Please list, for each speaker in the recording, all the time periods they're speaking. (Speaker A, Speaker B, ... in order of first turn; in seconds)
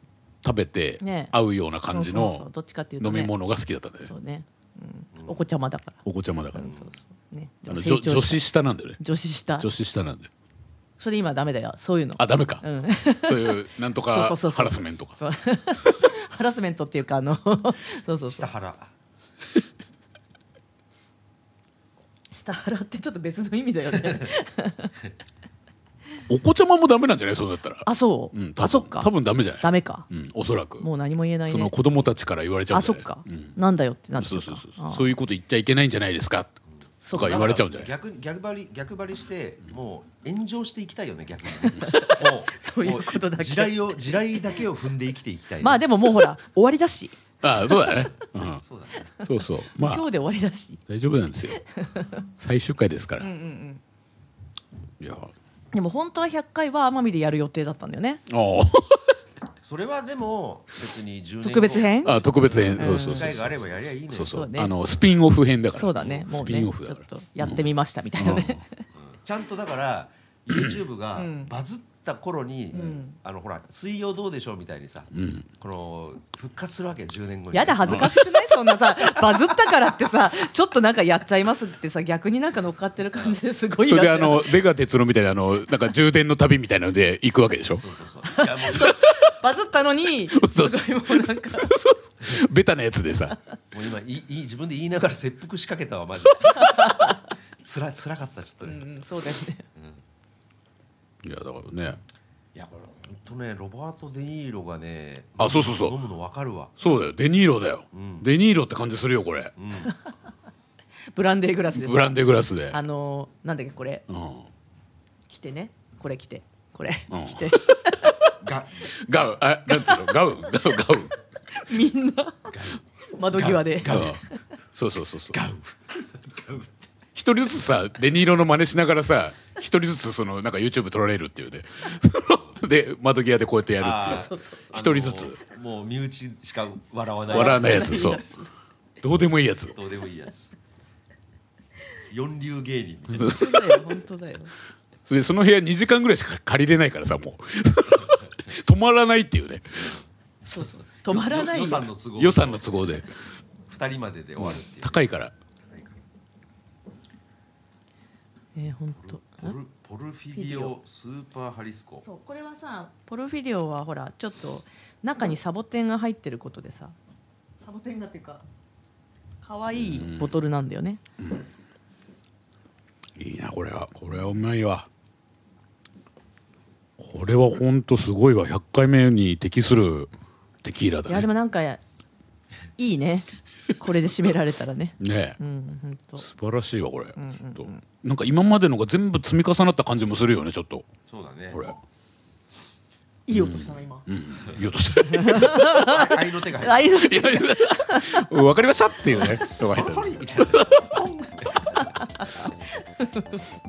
Speaker A: 0.4-2.5, 3.0-4.1, 6.0-6.7, 7.7-9.0, 9.6-10.3, 12.2-15.2, 26.3-30.9, 31.4-33.5, 34.1-36.5, 37.1-37.9, 47.4-48.6, 49.2-50.0, 50.9-51.6, 52.4-53.3, 55.0-55.3, 58.3-59.1, 62.0-68.6, 70.5-70.8, 75.1-75.5, 77.9-78.2, 83.8-87.8, 88.8-89.2, 90.3-93.3, 101.2-102.0, 105.4-106.0, 106.8-109.5, 111.7-112.8, 114.1-114.5, 117.1-117.8, 118.9-121.2, 123.9-124.2, 124.7-125.4, 127.1-135.4, 137.3-138.2, 139.0-139.8, 143.1-143.9, 145.1-150.0, 152.2-153.2, 154.4-155.3, 169.8-170.4, 171.2-171.5, 173.2-174.9, 177.0-180.1, 180.6-181.3, 185.0-185.4, 186.2-190.8, 191.5-191.8, 193.3-195.7, 196.9-200.9
Speaker B: 1.0-1.3, 1.9-3.3, 4.0-8.4, 9.0-9.7, 11.0-18.5, 22.3-24.9, 27.8-30.1, 30.8-31.7, 32.7-35.1, 37.0-37.5, 41.6-44.6, 45.6-48.2, 49.8-50.8, 51.6-52.2, 53.2-53.8, 55.7-58.2, 61.4-62.2, 62.8-63.3, 64.3-64.7, 65.7-68.8, 71.1-71.5, 72.7-73.2, 77.5-84.6, 88.3-91.7, 96.5-97.3, 98.6-99.6, 111.1-114.0, 115.3-118.2, 119.7-120.2, 121.5-122.5, 123.1-124.3, 134.0-134.8, 137.3-138.5, 143.2-144.5, 150.4-151.9, 158.5-159.5, 160.3-160.8, 162.0-166.9, 167.6-168.4, 169.4-171.0, 181.1-181.8, 182.8-186.3, 187.2-187.8, 193.3-194.1, 195.1-198.2, 201.7-203.5
Speaker C: 5.1-5.4, 6.5-7.0, 18.3-18.9, 37.1-45.8, 48.5-49.1, 59.6-64.4, 66.0-66.2, 69.0-79.7, 83.1-83.4, 87.7-89.0, 93.7-98.8, 99.7-100.0, 102.5-106.7, 107.9-108.3, 109.6-109.9, 118.4-118.9, 122.5-124.2, 125.3-126.8, 133.8-138.1, 139.7-140.5, 142.1-143.5, 150.6-152.7, 153.7-155.1, 155.7-155.9, 158.9-162.0, 191.1-191.7, 195.7-196.9, 199.1-201.9